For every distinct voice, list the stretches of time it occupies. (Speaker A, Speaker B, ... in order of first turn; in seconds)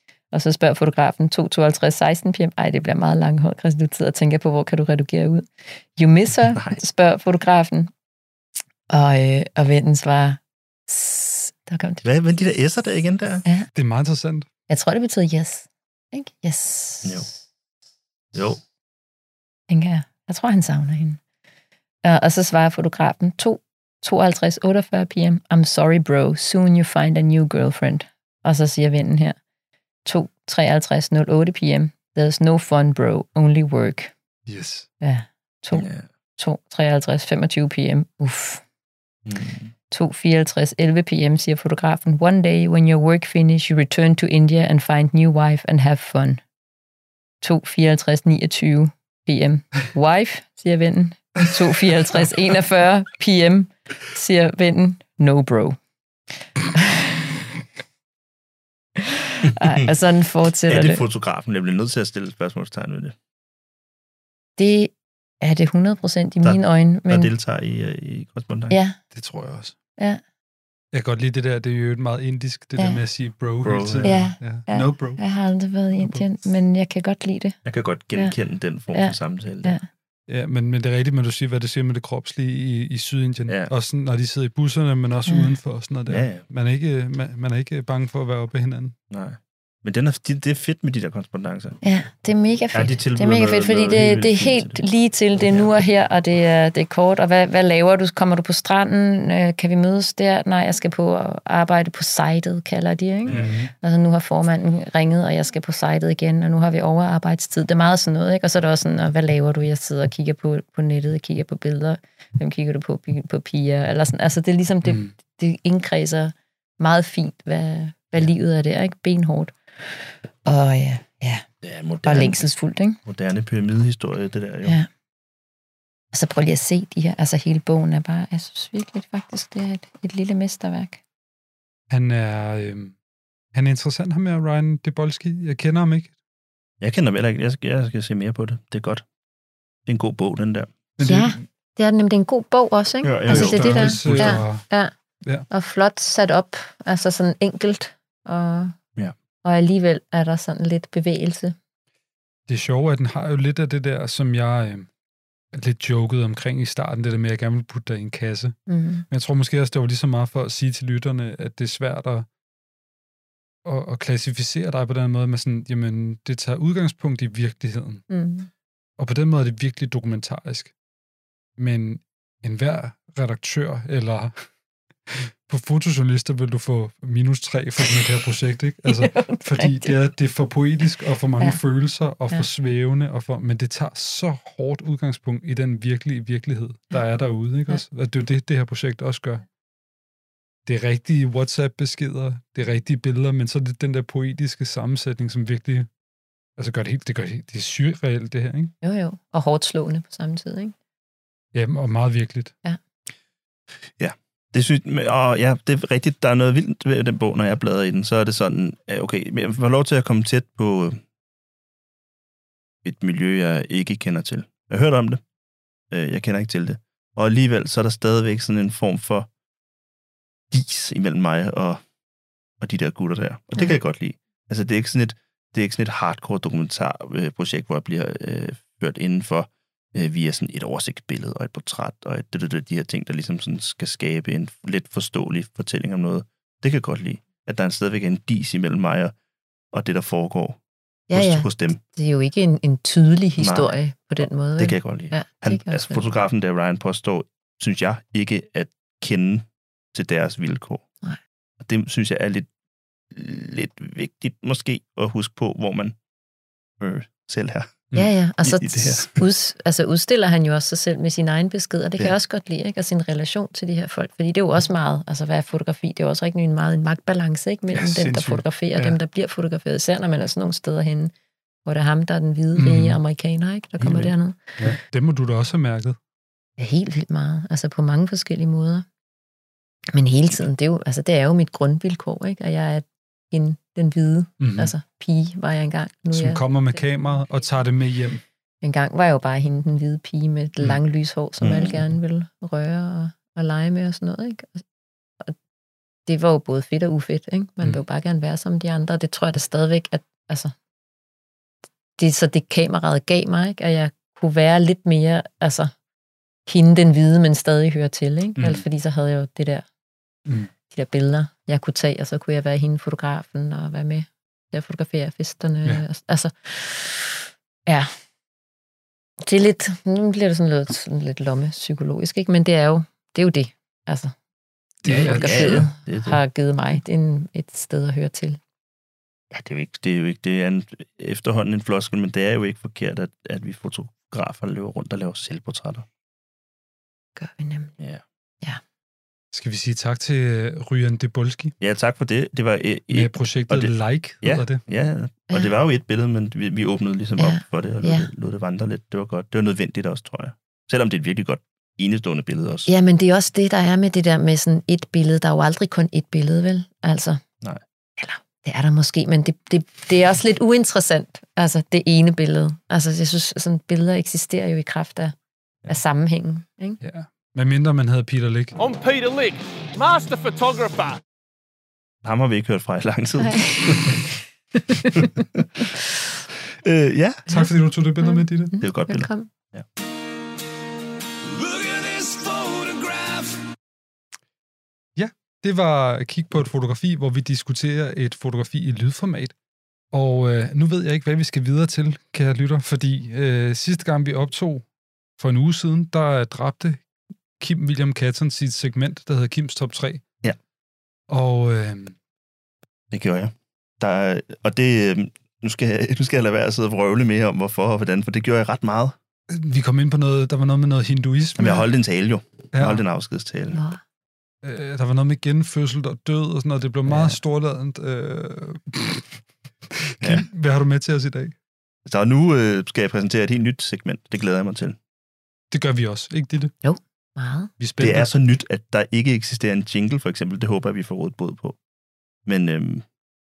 Speaker A: 0.3-7.9, 8.9-12.1, 14.7-17.3, 19.7-21.2, 22.0-29.4, 30.1-34.1, 35.0-35.9, 36.4-38.6, 39.9-46.4, 47.4-55.8, 56.7-57.3, 59.0-61.0, 64.6-67.3, 68.7-69.0, 74.0-77.6, 78.9-79.8, 85.3-85.5, 91.8-121.4, 122.0-123.0, 126.1-131.0, 141.0-144.9, 145.5-148.8, 149.4-151.6, 158.7-159.1, 168.1-168.5, 178.9-180.0, 198.8-200.8, 241.1-246.1, 257.9-271.1, 271.6-274.7, 276.6-278.9, 279.9-286.4, 288.6-294.6, 296.1-300.5, 302.0-305.7, 306.5-309.6, 310.7-317.9, 319.2-324.1, 324.9-328.4, 337.2-337.7, 347.2-348.1, 352.7-357.2, 358.0-365.1, 365.7-366.8, 373.2-375.1, 377.3-379.3, 413.5-413.8, 426.6-427.5
Speaker B: 6.5-6.8, 12.0-13.4, 18.3-18.6, 35.7-36.0, 39.3-39.7, 59.5-59.9, 60.7-63.1, 66.4-68.8, 73.6-74.2, 77.7-79.8, 86.1-86.4, 89.1-91.8, 92.7-94.8, 95.4-95.7, 103.3-103.7, 121.6-122.4, 123.1-124.8, 136.8-139.0, 139.9-140.7, 143.0-144.4, 204.0-211.0, 212.8-215.2, 215.9-219.3, 220.5-221.8, 222.6-239.1, 239.7-240.6, 241.1-241.8, 243.4-243.7, 244.6-250.8, 251.6-252.5, 253.1-255.9, 256.8-257.9, 258.4-259.2, 291.4-291.8, 324.9-326.2, 329.3-335.9, 341.6-352.7, 372.0-374.1, 374.9-375.6, 376.6-377.3, 378.6-379.6, 402.9-408.9, 411.4-413.6, 416.9-417.2, 420.0-420.3, 421.9-424.8, 427.8-431.6, 432.3-432.8
Speaker C: 13.8-14.5, 34.5-34.9, 69.1-69.8, 70.9-75.2, 76.0-76.2, 80.3-89.0, 103.3-103.7, 114.8-115.1, 131.9-132.9, 133.5-136.1, 141.0-141.4, 143.3-144.6, 152.5-154.9, 155.5-158.6, 159.1-162.3, 163.7-168.1, 169.0-170.7, 171.6-174.4, 175.1-189.4, 190.7-195.9, 196.6-198.7, 201.5-202.5, 267.7-269.0, 272.6-273.0, 274.6-276.0, 284.4-284.7, 286.1-288.2, 308.4-308.6, 324.8-325.7, 339.3-341.5, 342.9-344.6, 366.8-368.6, 377.3-378.5, 381.4-383.3, 385.0-389.3, 389.9-394.6, 395.2-396.8, 397.4-400.0, 401.1-402.0, 409.3-411.7, 412.5-412.8, 414.4-419.1, 419.7-421.4, 425.5-426.5, 427.6-428.1
Speaker D: 368.6-371.0